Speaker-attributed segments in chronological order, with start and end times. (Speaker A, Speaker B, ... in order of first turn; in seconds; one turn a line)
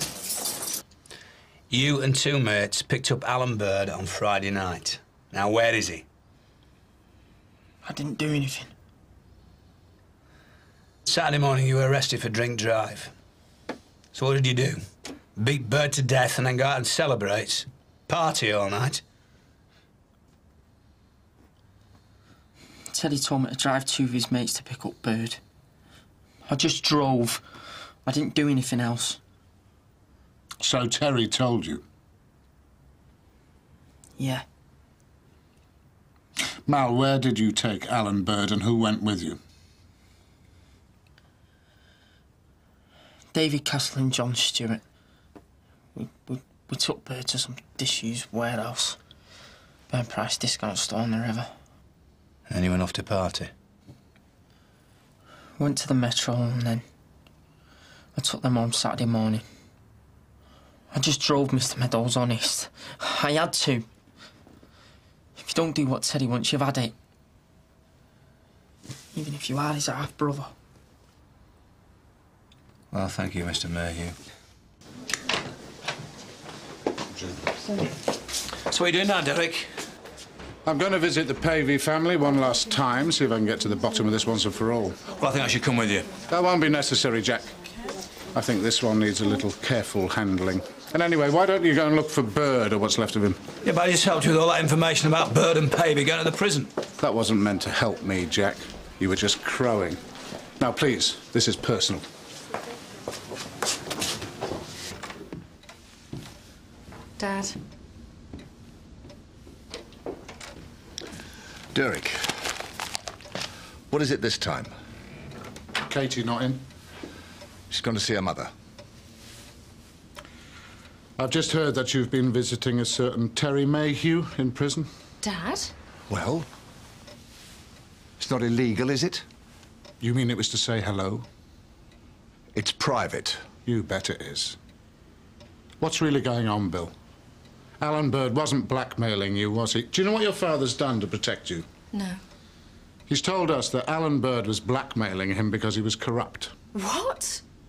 Speaker A: 1.7-6.0
Speaker B: 7.8-8.7
Speaker A: 11.1-13.1
Speaker A: 14.1-14.8
Speaker A: 15.3-19.0
Speaker B: 22.9-25.4
Speaker B: 26.5-27.4
Speaker B: 28.0-29.2
Speaker C: 30.6-31.8
Speaker B: 34.2-34.4
Speaker C: 36.6-39.4
Speaker B: 43.3-44.8
Speaker B: 45.9-49.0
Speaker B: 49.9-51.5
Speaker A: 52.5-53.5
Speaker B: 55.6-56.8
Speaker B: 58.1-59.4
Speaker B: 60.9-63.9
Speaker B: 65.4-66.9
Speaker B: 69.1-70.5
Speaker A: 72.9-74.2
Speaker C: 77.1-77.4
Speaker A: 78.7-79.7
Speaker C: 80.6-85.0
Speaker A: 85.2-86.1
Speaker C: 86.3-87.5
Speaker C: 88.3-93.4
Speaker A: 93.6-96.7
Speaker C: 97.0-100.0
Speaker C: 100.6-102.1
Speaker D: 107.2-107.6
Speaker E: 111.7-112.5
Speaker E: 113.9-114.7
Speaker C: 115.8-116.6
Speaker E: 117.7-118.5
Speaker C: 121.2-124.9
Speaker D: 125.2-125.7
Speaker E: 126.1-126.5
Speaker E: 128.2-129.2
Speaker C: 130.0-131.2
Speaker E: 132.5-133.5
Speaker C: 133.6-134.6
Speaker C: 135.8-136.9
Speaker C: 137.8-141.7
Speaker D: 141.9-142.2
Speaker C: 143.1-146.5
Speaker D: 146.7-147.4